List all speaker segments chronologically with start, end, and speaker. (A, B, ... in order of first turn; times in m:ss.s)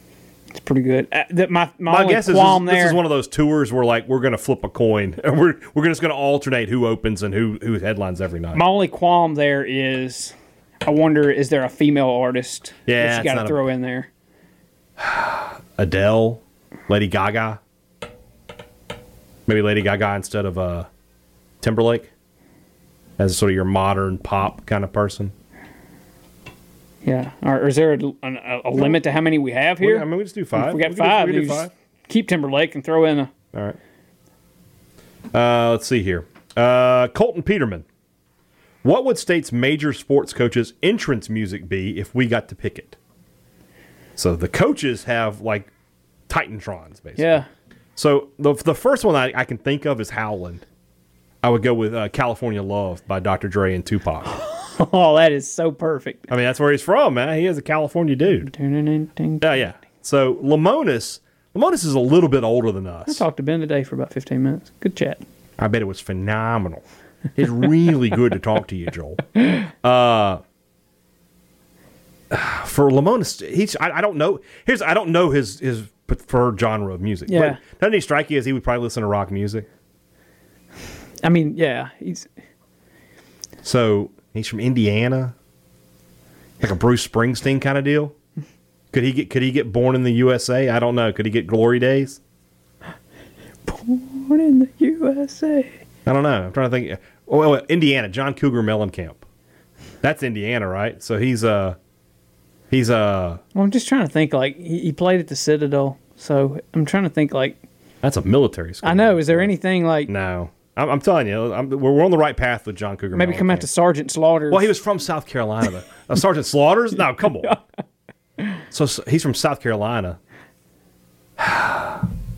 0:00.5-0:03.0 A
0:01.9-0:08.6 B
0:08.5-0:10.3 A
0:10.8-0:14.1 A
0:12.9-0:13.6 B
0:15.0-0:17.6 B
0:19.4-0:20.9 B
0:21.6-0:22.1 B
0:23.2-0:25.3 B
0:27.0-0:33.3 A
0:29.8-0:31.7 B
0:35.3-0:37.9 B
0:38.8-0:43.0 B
0:44.2-0:45.7 B
0:46.3-0:47.4 B
0:47.2-0:47.5 A
0:48.0-0:50.6 B
0:51.4-0:54.3 B
0:54.3-0:56.3 A
0:56.3-0:58.5 B
0:58.4-0:59.4 A
0:59.4-1:03.2 B
1:03.1-1:05.2 A
1:05.6-1:06.8 B
1:07.4-1:10.4 B
1:12.3-1:19.6 B
1:17.3-1:17.6 A
1:21.2-1:22.3 A
1:23.6-1:25.3 B
1:26.6-1:28.1 B
1:28.9-1:32.2 B
1:33.6-1:35.7 A
1:36.0-1:39.2 B
1:40.0-1:41.8 B
1:42.7-1:43.4 B
1:43.5-1:47.6 A
1:48.0-1:49.5 B
1:48.8-1:50.1 A
1:50.1-1:53.6 B
1:53.1-1:54.7 A
1:54.5-1:57.6 B
1:58.7-2:00.2 B
2:01.4-2:02.1 B